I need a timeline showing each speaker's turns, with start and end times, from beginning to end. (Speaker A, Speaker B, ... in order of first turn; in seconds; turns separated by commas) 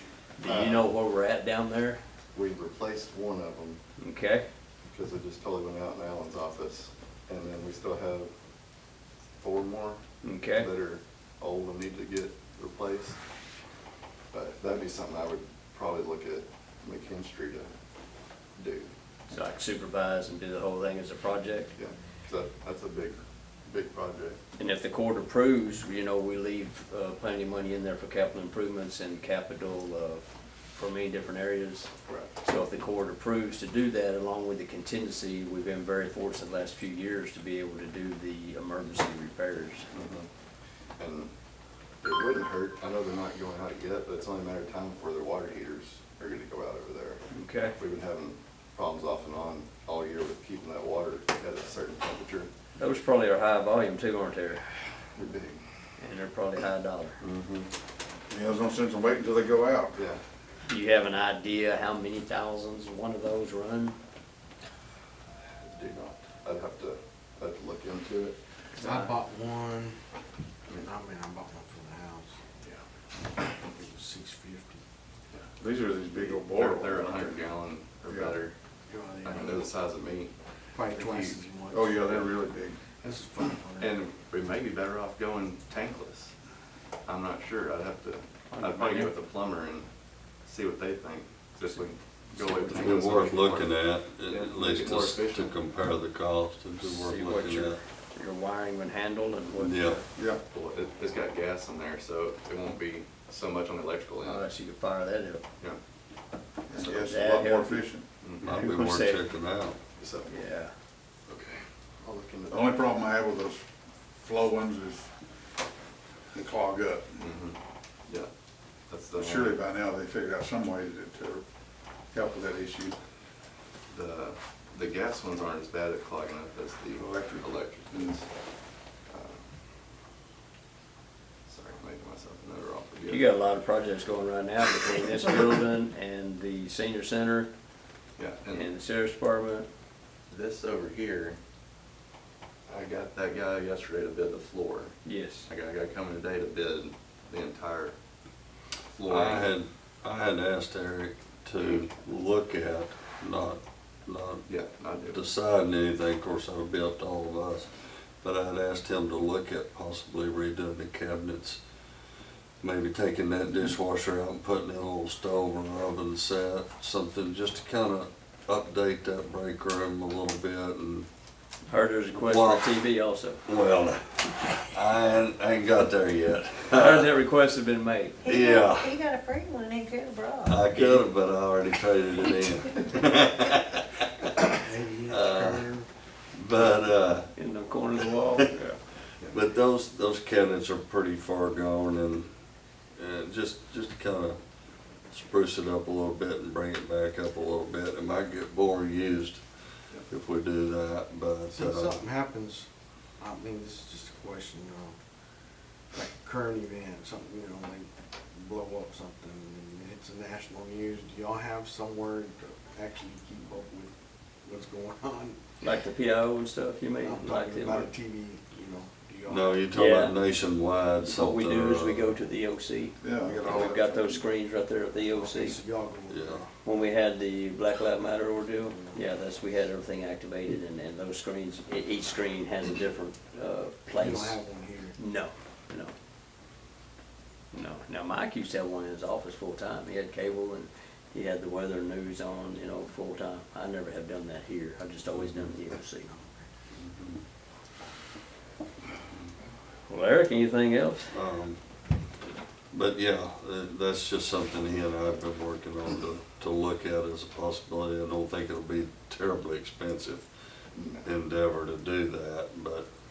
Speaker A: 0.4-2.0, Speaker B: 0.4-0.9, Speaker B: 2.3-3.8, Speaker A: 4.0-4.4, Speaker B: 4.8-8.3, Speaker B: 9.4-10.0, Speaker A: 10.2-10.7, Speaker B: 10.5-13.2, Speaker B: 14.3-17.7, Speaker B: 18.6-18.9, Speaker A: 19.3-21.7, Speaker B: 21.8-24.4, Speaker A: 24.6-39.9, Speaker B: 39.9-40.3, Speaker B: 41.0-41.3, Speaker B: 42.0-47.2, Speaker A: 47.3-47.7, Speaker B: 47.8-52.5, Speaker A: 52.8-54.6, Speaker B: 55.1-55.6, Speaker A: 56.0-57.2, Speaker B: 57.2-57.7, Speaker C: 58.3-59.9, Speaker B: 59.9-60.2, Speaker A: 60.7-64.0, Speaker B: 65.6-68.4, Speaker D: 68.8-70.0, Speaker A: 68.8-69.1, Speaker D: 70.8-72.3, Speaker D: 73.6-74.8, Speaker C: 75.6-77.4, Speaker B: 76.1-78.5, Speaker C: 78.0-78.4, Speaker D: 78.9-79.7, Speaker B: 79.2-80.3, Speaker D: 80.7-82.4, Speaker B: 80.9-81.3, Speaker C: 81.7-82.8, Speaker D: 83.0-84.0, Speaker B: 83.8-86.3, Speaker B: 87.0-89.9, Speaker A: 88.5-89.1, Speaker B: 90.4-93.7, Speaker A: 92.3-93.5, Speaker E: 92.7-97.8, Speaker B: 94.3-95.5, Speaker A: 96.8-100.1, Speaker E: 99.5-100.0, Speaker C: 100.2-100.4, Speaker B: 100.5-104.5, Speaker A: 104.2-105.4, Speaker C: 106.7-108.0, Speaker B: 106.8-107.0, Speaker A: 107.0-107.9, Speaker B: 108.2-108.5, Speaker A: 108.4-109.2, Speaker E: 108.4-109.8, Speaker B: 110.0-110.3, Speaker A: 110.3-110.7, Speaker B: 111.3-112.7, Speaker C: 112.5-113.6, Speaker C: 114.2-115.1, Speaker C: 116.3-117.2, Speaker B: 117.2-117.6, Speaker B: 118.9-119.6, Speaker C: 119.2-121.4, Speaker C: 122.1-123.0, Speaker B: 123.9-128.3, Speaker C: 126.9-128.2, Speaker B: 129.1-129.5, Speaker B: 131.4-133.3, Speaker A: 133.1-137.5, Speaker B: 138.2-138.6, Speaker A: 138.5-139.7, Speaker B: 140.3-141.4, Speaker B: 142.7-147.9, Speaker A: 145.0-145.5, Speaker B: 148.9-149.5, Speaker E: 149.1-154.5, Speaker B: 154.5-155.2, Speaker E: 155.1-157.7, Speaker E: 158.2-161.6, Speaker E: 162.6-171.1, Speaker A: 171.7-173.4, Speaker E: 172.1-172.8, Speaker E: 173.4-177.1, Speaker A: 176.7-178.2, Speaker E: 178.2-179.0, Speaker F: 178.3-180.4, Speaker E: 180.4-184.3, Speaker A: 180.7-181.0, Speaker D: 184.5-185.9, Speaker E: 185.1-185.7, Speaker E: 186.3-187.3, Speaker A: 187.3-188.8, Speaker E: 189.3-192.3, Speaker E: 192.9-194.4, Speaker E: 195.1-199.4, Speaker E: 200.1-202.0, Speaker D: 201.5-202.7, Speaker D: 203.2-204.9, Speaker D: 205.9-213.9, Speaker D: 214.4-215.4, Speaker A: 215.6-217.9, Speaker D: 217.0-219.7, Speaker E: 219.3-222.2, Speaker A: 219.7-220.2, Speaker A: 221.0-225.6, Speaker C: 223.0-224.0, Speaker D: 225.1-226.5, Speaker E: 226.1-226.4, Speaker A: 226.6-234.4, Speaker D: 228.7-229.1, Speaker D: 233.9-234.9, Speaker A: 235.0-235.9, Speaker A: 237.5-246.1, Speaker E: 245.2-245.5, Speaker D: 246.0-246.4, Speaker E: 246.8-247.2, Speaker A: 249.9-251.2, Speaker E: 251.1-251.6, Speaker E: 252.7-260.3, Speaker B: 260.7-261.1, Speaker E: 261.0-262.9